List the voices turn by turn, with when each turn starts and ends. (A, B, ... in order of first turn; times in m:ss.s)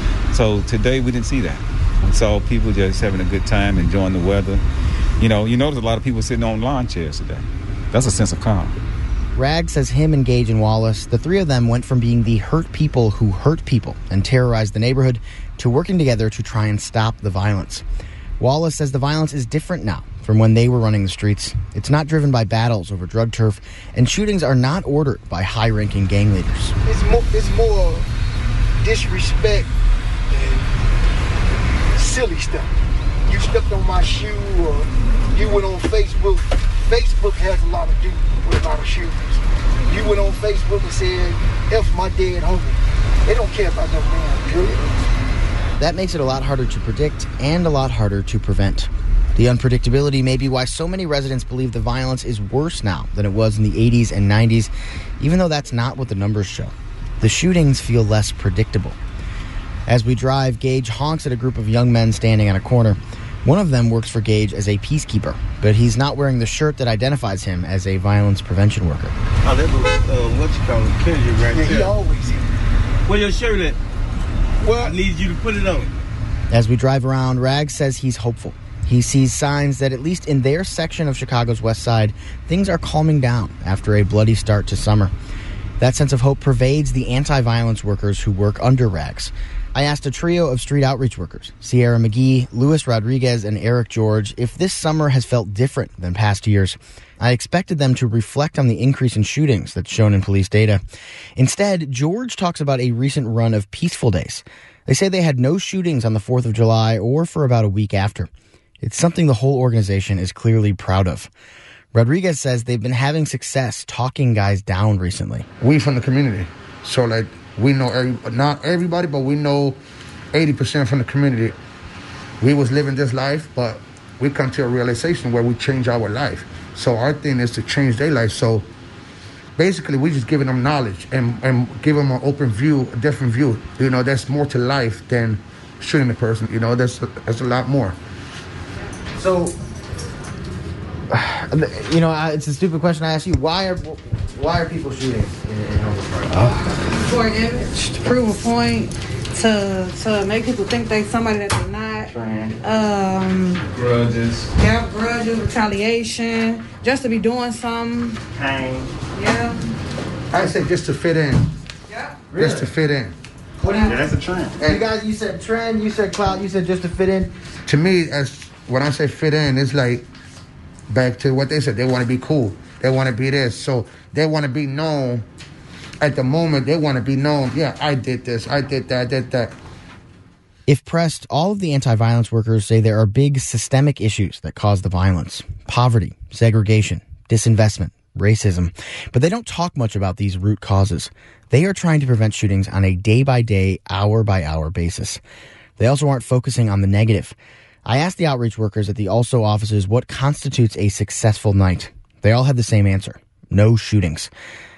0:00.3-0:04.6 A
0:05.2-0:08.8 A
0:09.3-0:17.8 B
0:18.4-0:26.7 B
0:26.8-0:28.1 C
0:28.8-0:29.7 C
0:30.3-0:30.7 C
0:31.9-0:32.7 C
0:33.3-0:45.0 C
0:45.8-0:59.0 B
0:59.9-1:09.1 B
1:09.4-1:12.0 D
1:11.4-1:12.5 C
1:13.1-1:13.8 D
1:14.6-1:15.0 C
1:14.6-1:15.9 D
1:16.5-1:25.1 B
1:25.8-1:40.8 B
1:41.4-1:48.3 B
1:48.8-1:51.3 B
1:51.9-1:55.5 B
1:55.6-1:59.8 E
2:00.3-2:01.6 E
2:02.4-2:08.7 E
2:09.6-2:18.0 E
2:19.2-2:19.5 B
2:21.1-2:26.7 B
2:26.9-2:33.6 F
2:33.7-2:34.5 A
2:34.6-2:38.2 F
2:39.1-2:39.7 F
2:40.3-2:41.5 E
2:41.9-2:42.3 F
2:42.3-2:42.7 B
2:42.3-2:43.2 E
2:43.6-2:44.0 B
2:43.7-2:44.0 F
2:44.6-2:44.8 E
2:44.6-2:47.3 B
2:47.6-2:50.1 E
2:50.9-2:55.2 E
2:56.0-2:59.5 E
3:00.7-3:15.2 B
3:15.8-3:24.3 B